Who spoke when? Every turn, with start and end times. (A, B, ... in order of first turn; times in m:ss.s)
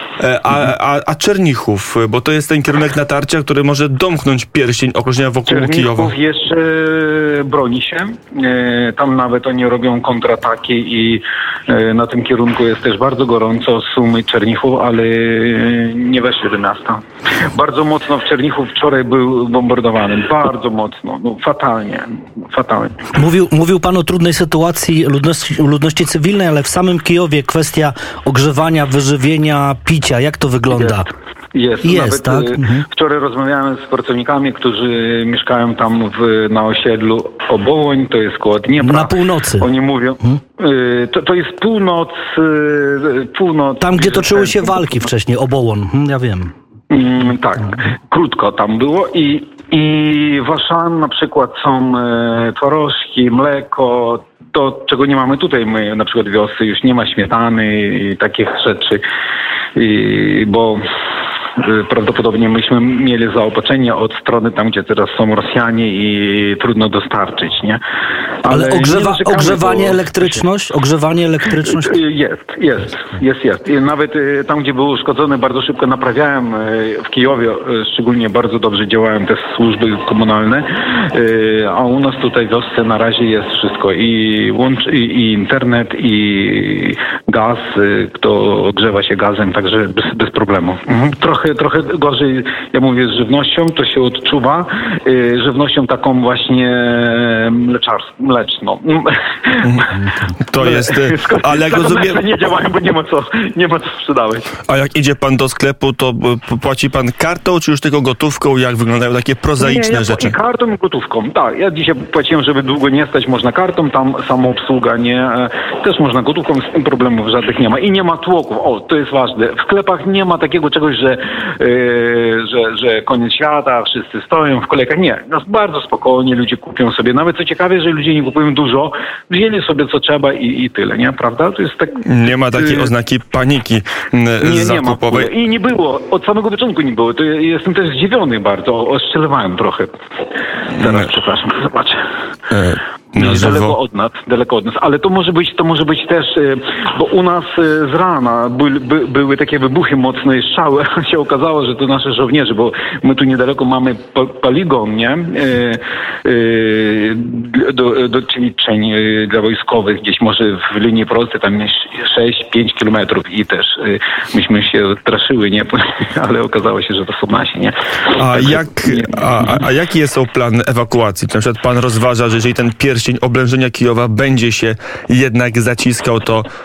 0:00.2-0:06.1 A
0:05.5-0:23.0 B
0:23.1-0:31.1 C
0:31.5-0:44.9 B
0:31.8-0:32.8 C
0:38.8-0:39.7 C
0:43.8-0:46.5 C
0:46.9-0:59.0 B
0:59.8-1:00.8 B
1:01.6-1:07.8 B
1:08.4-1:10.4 B
1:08.5-1:11.9 C
1:11.6-1:40.0 B
1:39.6-1:42.2 A
1:40.6-1:44.5 B
1:44.7-1:50.3 A
1:49.6-2:12.0 B
2:12.0-2:15.3 A
2:12.6-2:12.9 B
2:14.4-2:19.9 B
2:20.7-2:22.0 B
2:22.5-2:23.7 A
2:23.2-2:49.2 B
2:48.1-2:56.5 A